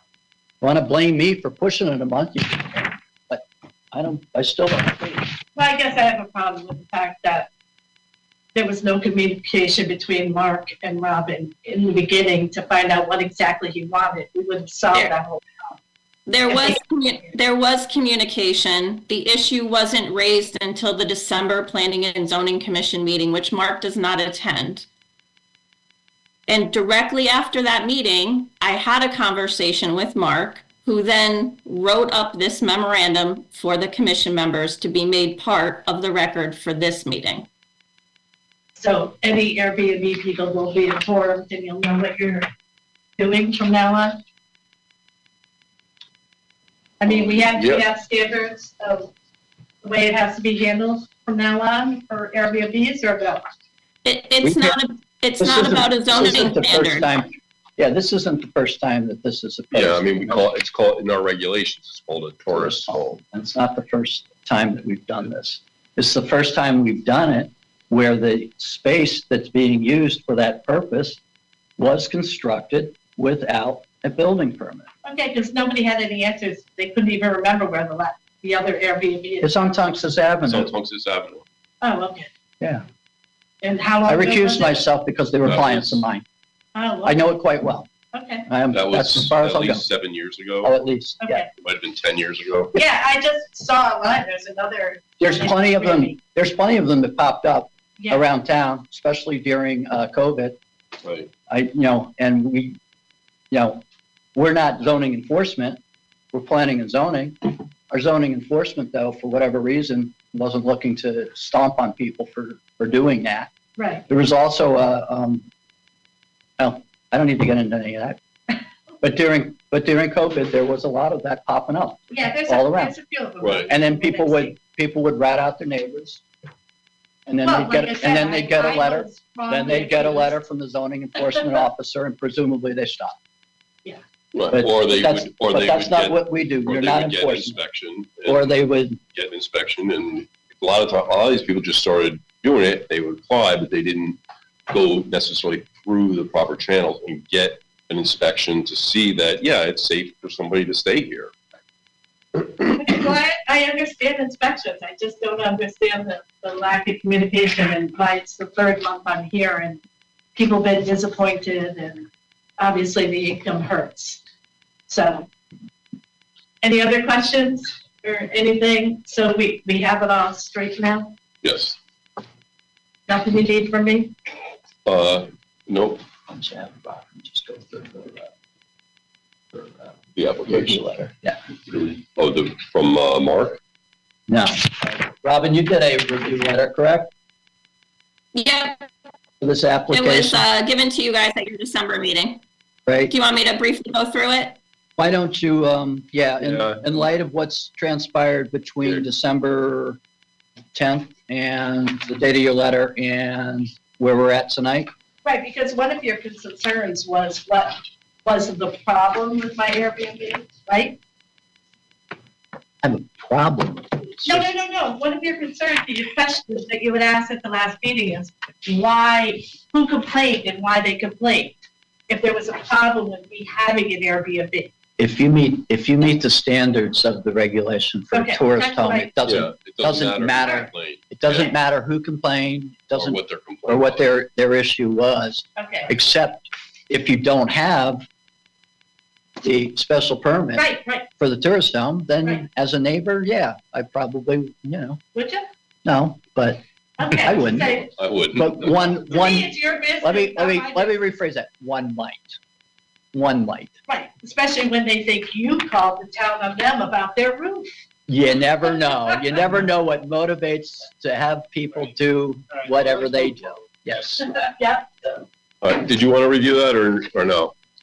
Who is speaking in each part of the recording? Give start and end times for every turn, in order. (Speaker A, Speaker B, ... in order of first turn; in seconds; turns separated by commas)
Speaker A: 0.6-5.3, Speaker B: 5.6-7.5, Speaker B: 8.5-15.7, Speaker C: 16.3-24.9, Speaker B: 16.5-16.8, Speaker C: 26.5-37.5, Speaker B: 38.8-42.5, Speaker B: 43.2-44.2, Speaker B: 47.0-49.1, Speaker D: 47.5-47.8, Speaker B: 49.8-53.4, Speaker C: 54.0-57.1, Speaker A: 54.4-54.8, Speaker A: 55.4-60.5, Speaker D: 59.7-63.2, Speaker A: 62.5-71.2, Speaker A: 71.8-74.9, Speaker B: 75.0-79.5, Speaker A: 79.4-80.7, Speaker D: 80.5-81.4, Speaker B: 81.8-82.3, Speaker B: 83.6-84.8, Speaker A: 84.1-86.2, Speaker D: 85.5-86.0, Speaker B: 86.8-87.2, Speaker A: 87.0-87.9, Speaker B: 88.1-88.5, Speaker A: 88.5-89.8, Speaker D: 88.7-90.7, Speaker A: 90.6-91.4, Speaker B: 91.2-91.5, Speaker D: 91.6-92.8, Speaker B: 92.8-96.2, Speaker A: 95.2-100.6, Speaker B: 98.0-98.2, Speaker D: 101.0-101.3, Speaker A: 101.5-102.8, Speaker A: 103.5-103.8, Speaker A: 104.3-105.8, Speaker A: 106.3-113.5, Speaker B: 113.8-114.1, Speaker A: 114.1-115.5, Speaker A: 116.6-118.2, Speaker A: 119.0-123.0, Speaker B: 122.1-124.6, Speaker D: 123.4-123.7, Speaker A: 123.7-126.2, Speaker A: 127.3-133.2, Speaker B: 127.4-130.4, Speaker D: 134.3-138.6, Speaker A: 134.5-137.6, Speaker A: 138.3-139.0, Speaker D: 139.1-151.3, Speaker B: 152.6-159.8, Speaker B: 160.3-164.2, Speaker B: 164.9-165.3, Speaker B: 166.6-171.2, Speaker D: 171.4-171.8, Speaker B: 173.1-174.1, Speaker D: 174.8-176.0, Speaker A: 176.3-178.3, Speaker A: 179.5-179.9, Speaker D: 180.2-180.9, Speaker A: 180.5-181.4, Speaker D: 181.7-183.6, Speaker A: 184.3-187.1, Speaker C: 188.3-188.9, Speaker A: 189.4-190.4, Speaker C: 189.9-192.4, Speaker A: 192.9-193.1, Speaker C: 193.1-194.6, Speaker A: 195.0-200.0, Speaker D: 196.4-196.8, Speaker A: 200.7-204.9, Speaker B: 205.2-211.0, Speaker A: 212.8-214.5, Speaker B: 214.2-224.7, Speaker A: 225.0-238.0, Speaker B: 228.1-229.1, Speaker D: 229.3-231.5, Speaker D: 233.0-234.1, Speaker B: 235.6-235.9, Speaker A: 239.4-245.0, Speaker B: 240.6-241.1, Speaker B: 245.2-245.5, Speaker A: 245.8-247.8, Speaker B: 247.0-247.9, Speaker D: 248.0-249.0, Speaker A: 248.3-249.5, Speaker B: 249.1-251.0, Speaker A: 250.0-252.4, Speaker A: 253.1-253.7, Speaker B: 253.9-257.7, Speaker A: 258.1-264.3, Speaker B: 264.4-265.1, Speaker D: 265.6-267.6